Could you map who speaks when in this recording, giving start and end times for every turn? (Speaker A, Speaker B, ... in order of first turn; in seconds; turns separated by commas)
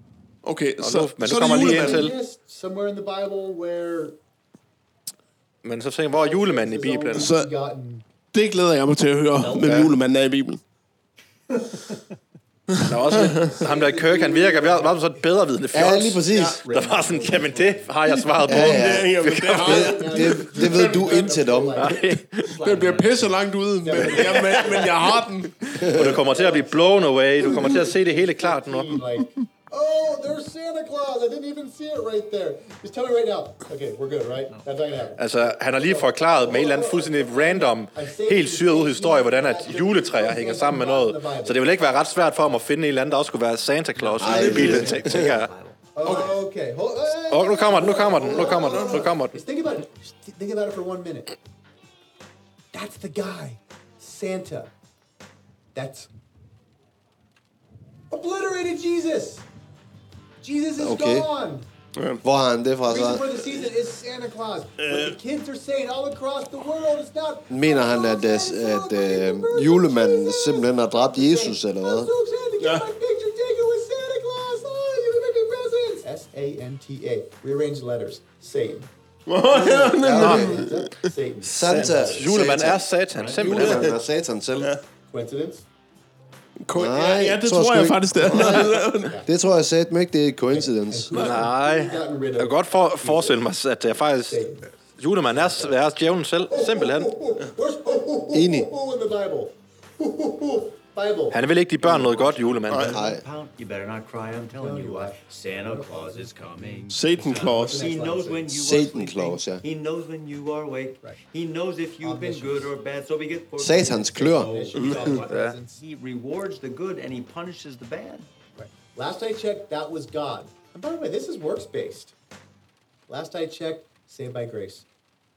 Speaker A: 0.4-2.1, Speaker B: 0.8-2.1, Speaker C: 1.6-4.2, Speaker B: 5.6-7.3, Speaker C: 6.1-8.0, Speaker A: 7.1-7.5, Speaker A: 8.3-10.6, Speaker B: 9.5-9.9, Speaker A: 12.7-13.6, Speaker B: 12.8-19.9, Speaker C: 13.6-15.0, Speaker D: 15.7-16.6, Speaker C: 16.5-17.9, Speaker A: 18.1-21.2, Speaker D: 18.4-21.9, Speaker C: 19.6-22.0, Speaker B: 21.8-22.6, Speaker E: 22.5-23.4, Speaker A: 22.6-25.6, Speaker C: 23.8-25.0, Speaker E: 24.0-24.9, Speaker D: 25.8-26.2, Speaker B: 25.8-29.0, Speaker C: 26.0-41.9, Speaker B: 35.2-45.5, Speaker E: 44.0-46.3, Speaker D: 44.2-45.3, Speaker A: 44.4-44.8, Speaker C: 45.9-51.3, Speaker B: 47.3-49.4, Speaker A: 48.1-49.1, Speaker C: 52.7-54.7, Speaker C: 55.7-56.1, Speaker C: 58.1-59.5, Speaker C: 60.4-61.6, Speaker D: 60.8-61.3, Speaker A: 61.9-62.2, Speaker D: 62.2-63.3, Speaker C: 62.9-78.9, Speaker A: 64.8-65.2, Speaker D: 67.5-72.1, Speaker A: 72.6-72.9, Speaker A: 79.3-81.1, Speaker C: 79.5-82.5, Speaker D: 80.0-80.6, Speaker B: 80.2-80.6, Speaker D: 81.5-82.8, Speaker B: 81.5-83.9, Speaker D: 83.3-84.8, Speaker A: 83.5-84.0, Speaker C: 85.1-85.6, Speaker A: 86.6-89.2, Speaker D: 86.7-88.6, Speaker C: 88.3-89.3, Speaker D: 89.2-91.1, Speaker C: 90.5-93.4, Speaker B: 91.1-94.5, Speaker A: 91.1-91.5, Speaker C: 94.3-95.7, Speaker B: 95.0-97.2, Speaker C: 96.5-102.2, Speaker D: 98.3-98.7, Speaker B: 101.3-102.9, Speaker E: 101.9-118.3, Speaker A: 102.7-102.9, Speaker D: 102.9-103.2, Speaker C: 104.5-108.5, Speaker A: 106.9-107.8, Speaker D: 108.5-109.6, Speaker C: 112.0-112.7, Speaker D: 113.6-114.5, Speaker C: 114.3-115.8, Speaker A: 114.8-115.2, Speaker B: 115.2-115.5, Speaker C: 118.5-122.1, Speaker C: 123.1-124.8